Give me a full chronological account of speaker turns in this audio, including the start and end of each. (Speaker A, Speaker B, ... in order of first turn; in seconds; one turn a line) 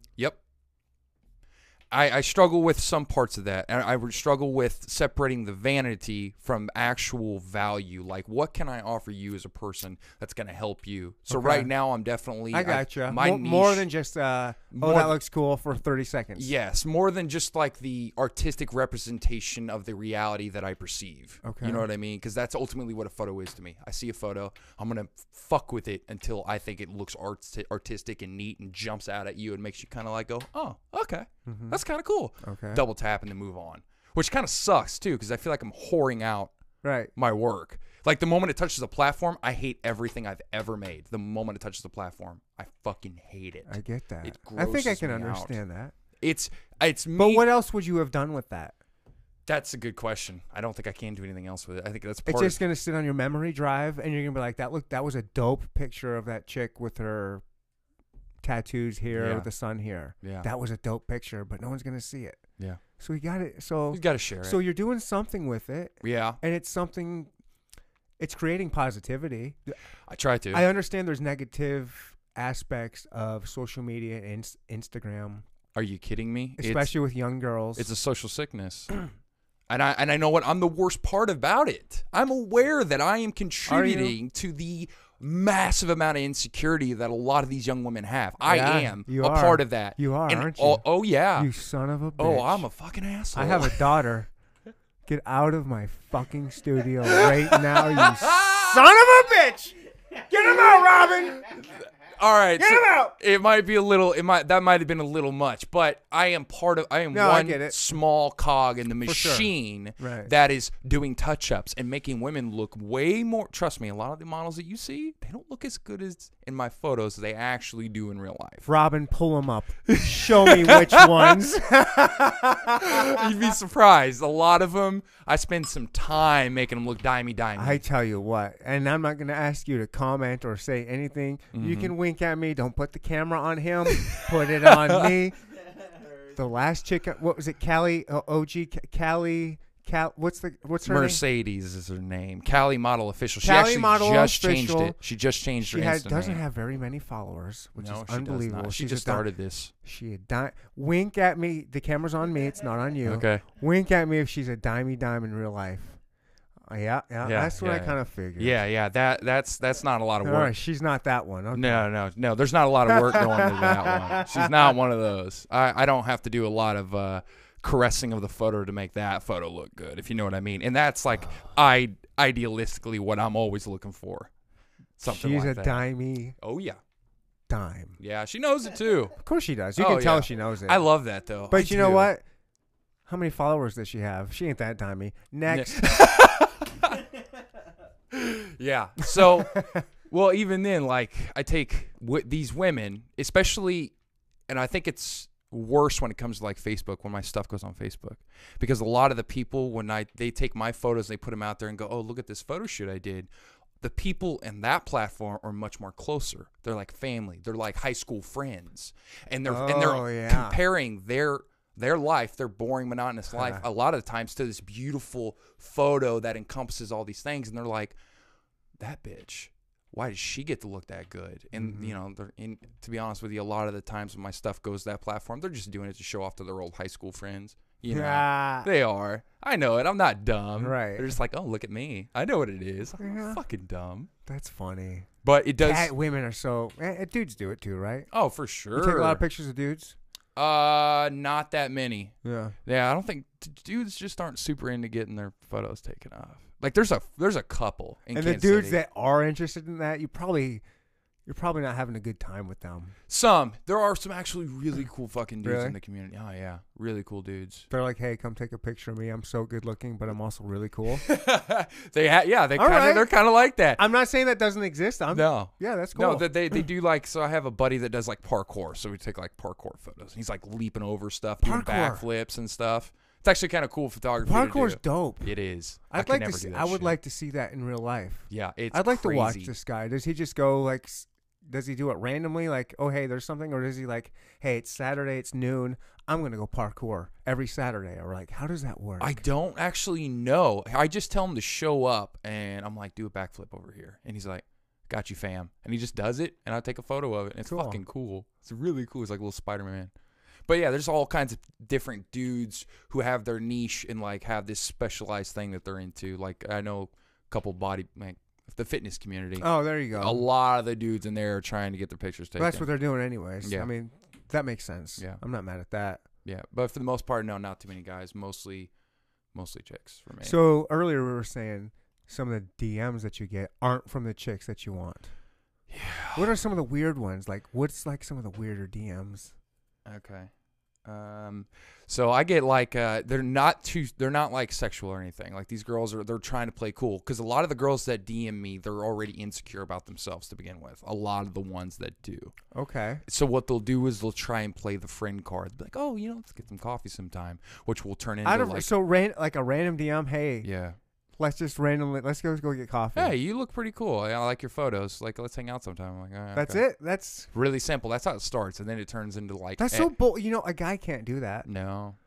Speaker A: 1.9-13.9
Speaker B: 11.3-11.7
Speaker B: 12.5-16.5
Speaker A: 14.7-15.2
Speaker A: 16.4-36.5
Speaker B: 21.4-21.9
Speaker B: 31.4-31.8
Speaker B: 32.4-32.8
Speaker B: 36.8-37.1
Speaker A: 37.1-45.6
Speaker B: 43.7-45.9
Speaker A: 46.2-47.5
Speaker B: 47.2-48.8
Speaker A: 49.5-52.6
Speaker B: 52.2-57.4
Speaker B: 58.4-62.4
Speaker A: 59.1-59.5
Speaker A: 60.2-60.5
Speaker B: 63.0-67.3
Speaker A: 63.9-64.6
Speaker A: 66.0-66.4
Speaker B: 68.2-69.8
Speaker A: 70.1-70.7
Speaker B: 70.5-75.4
Speaker A: 75.7-76.9
Speaker B: 76.6-77.9
Speaker A: 77.8-78.9
Speaker A: 79.7-91.5
Speaker B: 83.7-84.2
Speaker B: 88.4-90.8
Speaker B: 91.3-92.7
Speaker A: 92.2-93.8
Speaker B: 93.3-94.3
Speaker B: 95.0-101.6
Speaker A: 97.0-98.8
Speaker A: 101.6-118.7
Speaker B: 102.6-103.1
Speaker B: 107.1-107.8
Speaker B: 109.0-110.3
Speaker B: 118.6-123.2
Speaker A: 119.9-121.5
Speaker A: 122.7-127.8
Speaker B: 127.5-135.5
Speaker A: 131.5-131.9
Speaker A: 133.9-135.2
Speaker B: 136.2-141.2
Speaker A: 140.8-146.4
Speaker B: 143.4-145.0
Speaker B: 145.7-149.3
Speaker A: 147.8-149.7
Speaker B: 149.8-156.0
Speaker A: 153.0-153.4
Speaker B: 156.7-158.6
Speaker A: 157.2-160.5
Speaker B: 160.2-161.9
Speaker A: 161.5-174.3
Speaker B: 162.9-164.6
Speaker A: 175.0-175.8
Speaker B: 175.0-176.4
Speaker A: 176.4-176.8
Speaker B: 177.5-178.0
Speaker A: 178.0-179.2
Speaker B: 179.2-180.8
Speaker A: 179.8-182.1
Speaker B: 181.5-182.2
Speaker B: 183.1-186.0
Speaker A: 185.5-187.0
Speaker A: 188.1-193.9
Speaker B: 189.5-189.8
Speaker A: 194.5-203.3
Speaker A: 203.8-217.9
Speaker B: 209.4-210.6
Speaker B: 213.3-213.6
Speaker A: 218.8-234.1
Speaker B: 221.5-221.9
Speaker B: 227.9-228.7
Speaker B: 230.6-231.1
Speaker B: 233.0-233.4
Speaker B: 234.2-235.1
Speaker A: 235.2-235.9
Speaker B: 235.6-238.1
Speaker A: 238.1-239.2
Speaker B: 238.7-239.9
Speaker A: 240.3-248.8
Speaker B: 242.2-242.6
Speaker B: 248.1-250.6
Speaker B: 251.2-252.9
Speaker A: 253.1-257.7
Speaker B: 255.4-255.8
Speaker B: 257.7-261.0
Speaker A: 260.9-263.8
Speaker B: 262.6-263.1
Speaker B: 263.8-266.6
Speaker A: 265.1-277.0
Speaker B: 271.4-272.0
Speaker B: 274.2-275.3
Speaker B: 275.9-289.2
Speaker A: 278.3-279.5
Speaker A: 289.0-299.9
Speaker B: 297.4-297.8
Speaker A: 300.4-312.7
Speaker B: 309.4-310.2
Speaker B: 312.4-316.0
Speaker A: 313.4-313.7
Speaker A: 316.2-318.7
Speaker A: 319.3-320.4
Speaker B: 320.2-325.1
Speaker A: 325.7-326.3
Speaker B: 326.1-329.3
Speaker A: 329.8-330.3
Speaker A: 330.8-342.3
Speaker B: 342.5-343.0
Speaker A: 343.0-348.7
Speaker B: 348.2-350.5
Speaker A: 350.4-350.8
Speaker B: 351.2-353.1
Speaker A: 352.9-356.6
Speaker B: 356.3-357.3
Speaker A: 357.3-359.9
Speaker B: 359.6-361.5
Speaker A: 361.4-362.0